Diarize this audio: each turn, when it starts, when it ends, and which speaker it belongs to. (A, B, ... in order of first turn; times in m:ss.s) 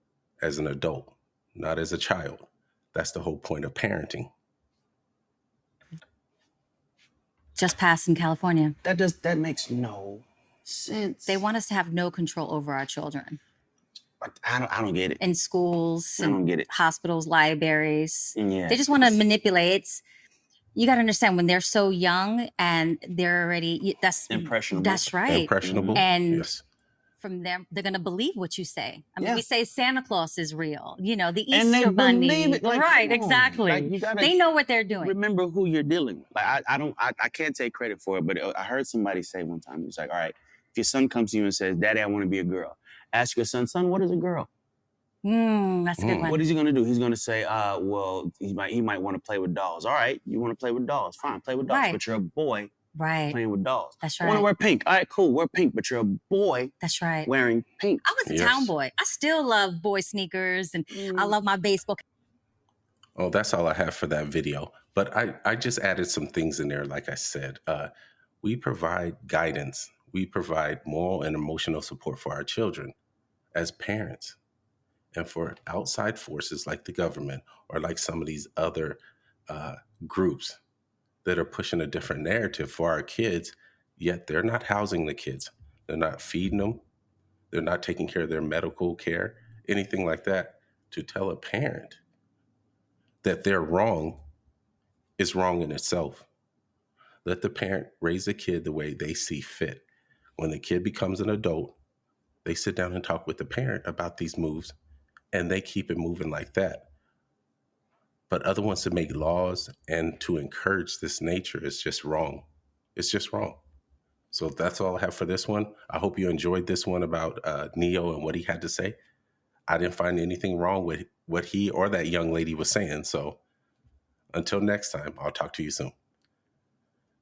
0:00.4-0:04.3 A
0:07.6-0:08.8 B
0:08.8-0:11.4 C
0:11.2-0:13.4 B
0:14.2-0:15.2 C
0:15.2-0:20.0 B
0:16.2-0:16.7 C
0:18.4-0:19.2 C
0:20.7-0:26.5 B
0:24.3-0:26.0 C
0:25.3-0:26.6 A
0:27.2-0:35.1 B
0:31.5-0:34.3 C
0:35.0-0:44.5 C
0:45.2-0:46.4 B
0:46.0-0:46.3 A
0:46.2-0:52.7 C
0:51.7-0:52.0 B
0:52.9-0:53.4 B
0:53.3-0:56.7 C
0:54.0-0:54.5 B
0:56.8-0:57.3 B
0:57.2-0:58.0 C
0:58.0-1:02.0 B
0:58.2-0:58.7 A
1:00.9-1:01.3 C
1:03.2-1:07.9 A
1:08.4-1:12.9 A
1:13.5-1:14.4 A
1:15.1-1:20.6 A
1:21.2-1:26.8 A
1:27.5-1:32.0 A
1:33.2-1:34.2 A
1:35.2-1:36.3 A
1:37.2-1:39.8 A
1:40.4-1:41.8 A
1:42.4-1:44.7 A
1:45.3-1:46.9 A
1:48.3-1:53.6 A
1:54.3-1:59.0 A
1:59.7-2:03.4 A
2:04.3-2:05.9 A